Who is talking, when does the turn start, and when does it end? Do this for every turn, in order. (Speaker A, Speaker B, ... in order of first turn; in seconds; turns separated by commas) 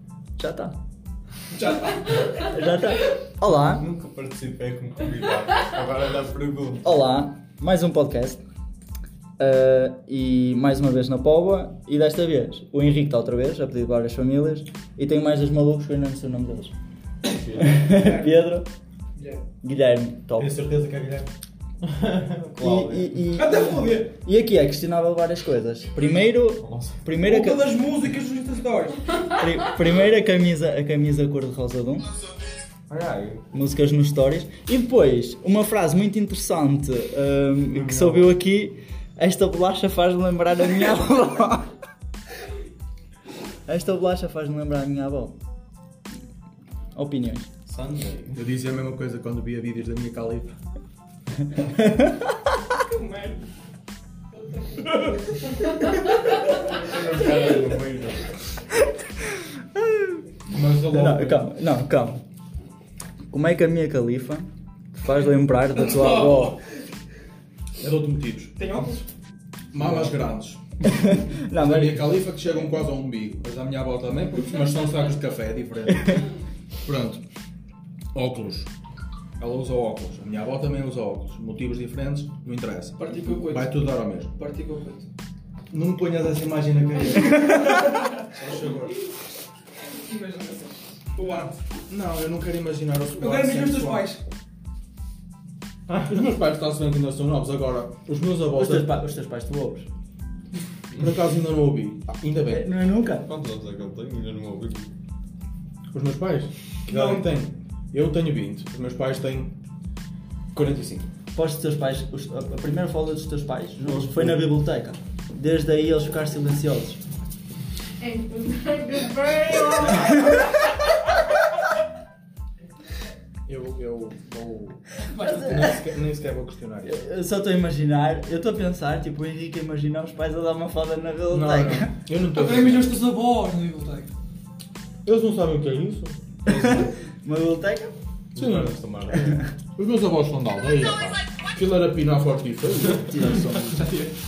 Speaker A: 0.4-0.7, Speaker A: 2.4-3.8, Speaker B: 3.8-6.9, Speaker A: 6.8-8.4, Speaker A: 9.4-16.7, Speaker B: 17.3-17.9, Speaker A: 17.6-18.7, Speaker A: 19.6-20.5, Speaker B: 20.4-21.3, Speaker B: 21.9-23.2, Speaker A: 22.6-27.6, Speaker C: 23.4-24.1, Speaker B: 26.6-27.1, Speaker C: 27.2-29.0, Speaker A: 29.3-32.1, Speaker B: 32.9-33.4, Speaker A: 33.5-41.7, Speaker B: 37.7-38.3, Speaker A: 43.7-45.4, Speaker A: 47.0-47.5, Speaker B: 47.7-48.4, Speaker D: 48.3-50.5, Speaker A: 51.5-52.5, Speaker C: 52.9-53.4, Speaker B: 56.7-58.3, Speaker A: 59.8-60.2, Speaker D: 60.5-61.5, Speaker A: 60.9-62.2, Speaker A: 63.3-66.6, Speaker D: 67.8-68.5, Speaker C: 68.6-69.0, Speaker D: 69.7-70.6, Speaker A: 69.8-70.2, Speaker A: 70.8-72.2, Speaker D: 71.5-76.3, Speaker D: 76.8-77.2, Speaker D: 78.1-78.7, Speaker D: 79.4-84.3, Speaker C: 83.0-83.8, Speaker C: 84.4-85.1, Speaker D: 85.7-89.0, Speaker C: 90.0-91.5, Speaker D: 91.9-94.1, Speaker C: 93.2-94.2, Speaker D: 96.0-99.0, Speaker A: 98.5-99.9, Speaker D: 101.0-102.7, Speaker A: 102.5-103.3, Speaker B: 103.2-104.9, Speaker D: 105.9-109.5, Speaker D: 110.5-111.1, Speaker A: 111.3-117.0, Speaker B: 113.8-114.4, Speaker E: 118.0-120.6, Speaker A: 119.9-120.6, Speaker D: 123.5-127.0, Speaker A: 125.2-125.8, Speaker A: 126.9-131.9, Speaker D: 131.3-133.0, Speaker C: 132.4-134.1, Speaker D: 135.1-136.1, Speaker B: 136.5-136.9, Speaker A: 136.5-137.9, Speaker B: 138.3-139.4, Speaker D: 138.4-138.8, Speaker D: 139.8-143.1, Speaker A: 142.9-143.8, Speaker C: 143.8-144.1